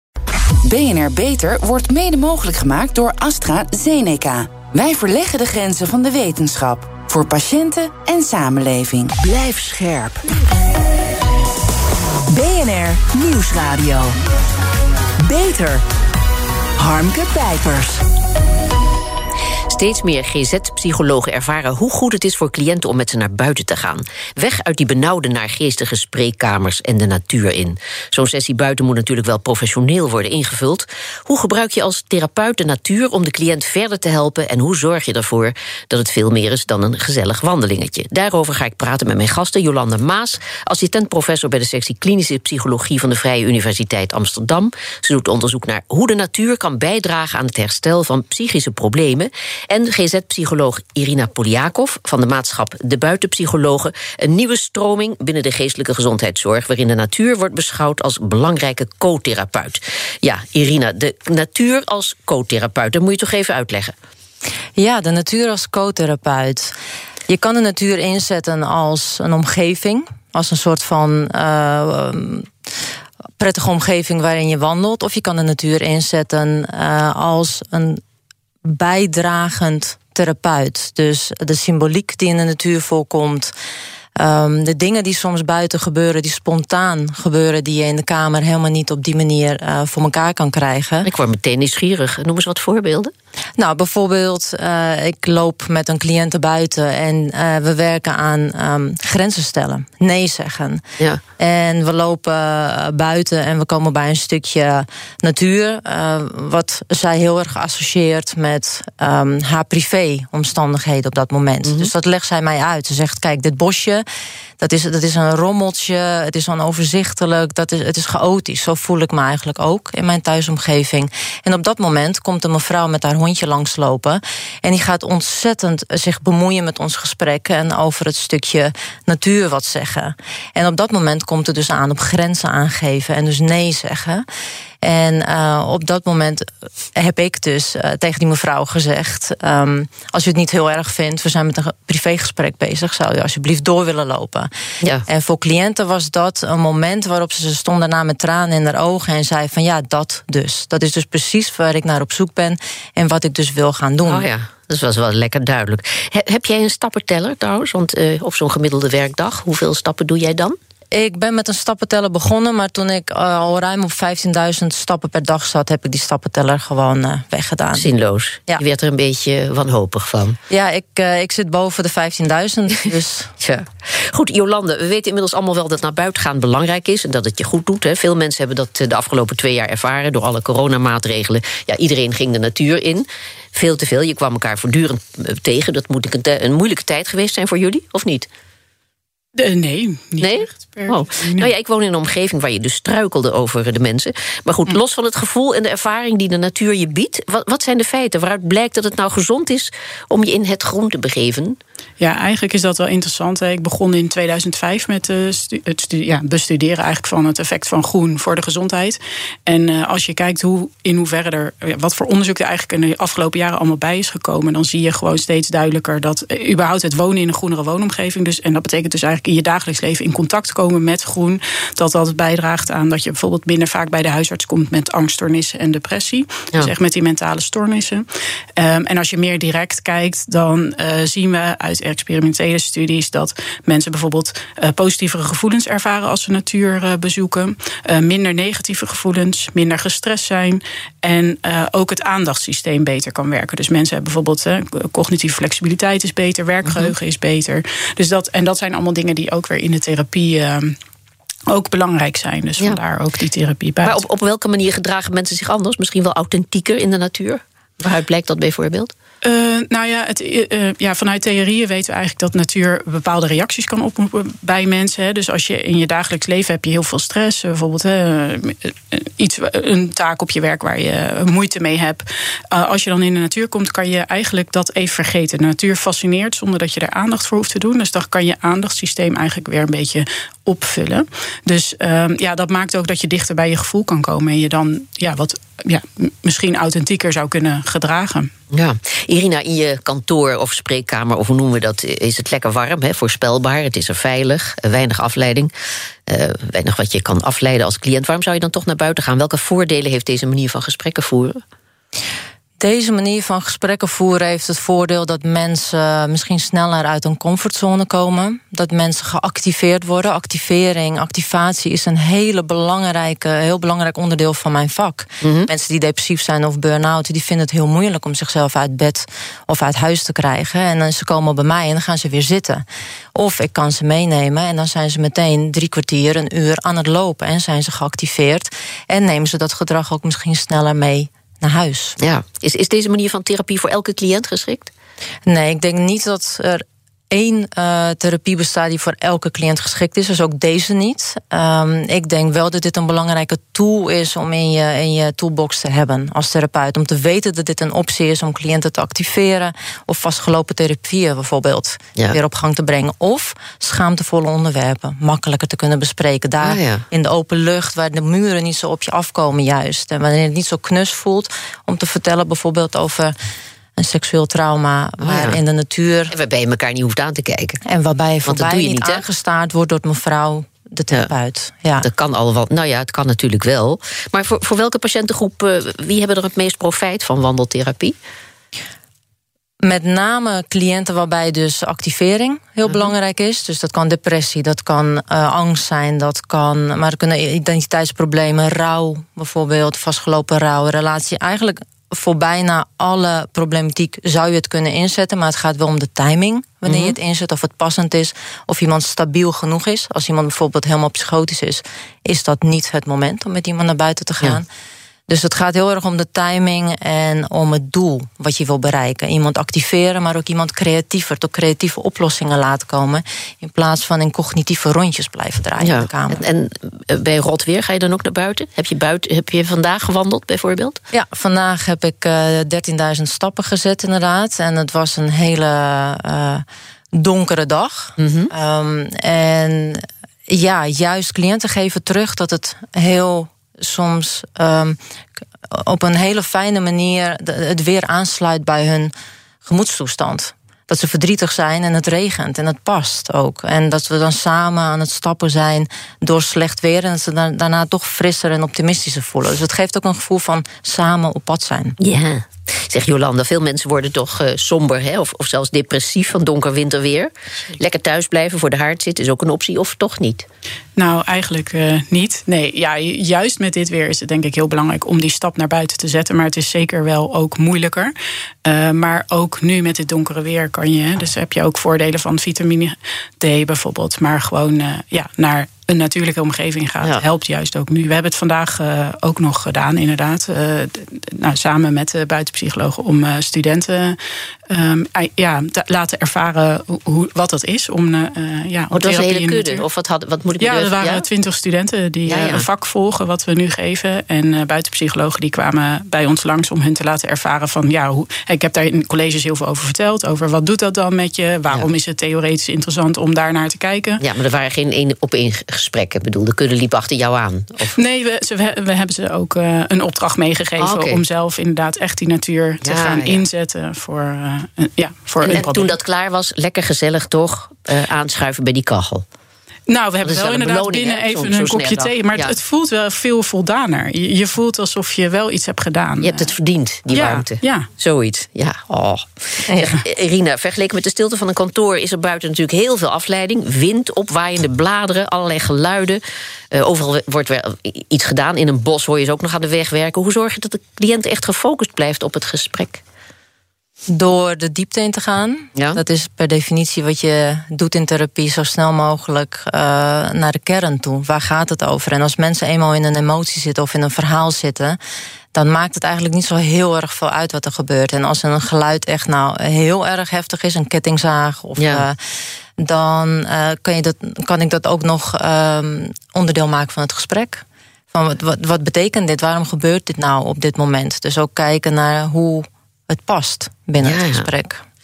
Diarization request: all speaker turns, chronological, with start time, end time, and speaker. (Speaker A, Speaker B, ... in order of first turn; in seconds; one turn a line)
Speaker A: 0.6-9.1
Speaker B: 9.2-10.4
Speaker B: 12.3-14.2
Speaker B: 15.2-15.8
Speaker B: 16.8-18.0
Speaker C: 19.7-64.0
Speaker D: 64.8-66.7
Speaker D: 67.3-72.5
Speaker D: 73.4-78.0
Speaker D: 78.6-83.5
Speaker D: 84.2-91.1
Speaker C: 91.0-93.1
Speaker D: 93.6-100.8
Speaker D: 101.4-114.0
Speaker C: 111.6-111.9
Speaker D: 114.6-134.2
Speaker D: 134.8-144.5
Speaker D: 145.1-154.3
Speaker C: 154.1-160.6
Speaker D: 160.9-167.9
Speaker C: 167.7-170.4
Speaker D: 170.5-173.3
Speaker C: 173.4-188.3
Speaker E: 189.3-191.5
Speaker C: 190.2-201.6
Speaker E: 202.0-228.1
Speaker E: 228.6-250.8
Speaker C: 246.7-246.9
Speaker E: 251.5-254.0
Speaker C: 253.8-258.9
Speaker E: 259.2-288.3
Speaker C: 288.5-295.5
Speaker C: 296.1-301.4
Speaker D: 302.6-332.0
Speaker C: 315.2-315.5
Speaker C: 332.0-334.7
Speaker D: 335.3-363.2
Speaker C: 356.4-356.9
Speaker D: 363.8-366.1
Speaker C: 365.0-365.4
Speaker C: 366.1-367.6
Speaker D: 367.6-371.9
Speaker C: 368.3-369.0
Speaker C: 371.8-378.0
Speaker D: 379.6-404.5
Speaker C: 396.7-397.0
Speaker D: 405.1-416.2
Speaker C: 415.6-420.8
Speaker D: 420.9-434.8
Speaker C: 428.0-428.3
Speaker D: 435.5-438.9
Speaker D: 439.4-451.8
Speaker C: 451.8-460.3
Speaker E: 460.8-467.9
Speaker E: 468.4-484.0
Speaker E: 484.5-489.6
Speaker C: 488.7-491.1
Speaker E: 490.4-504.0
Speaker C: 492.1-492.4
Speaker C: 504.0-507.8
Speaker E: 507.8-515.7
Speaker C: 510.6-511.0
Speaker C: 512.6-513.2
Speaker C: 515.2-519.0
Speaker E: 519.7-526.3
Speaker C: 520.0-522.4
Speaker C: 526.0-536.0
Speaker E: 526.9-527.7
Speaker C: 536.5-542.8
Speaker D: 543.9-554.8
Speaker C: 545.5-545.8
Speaker D: 555.3-562.0
Speaker C: 561.6-561.9
Speaker D: 562.6-574.6
Speaker C: 573.8-574.3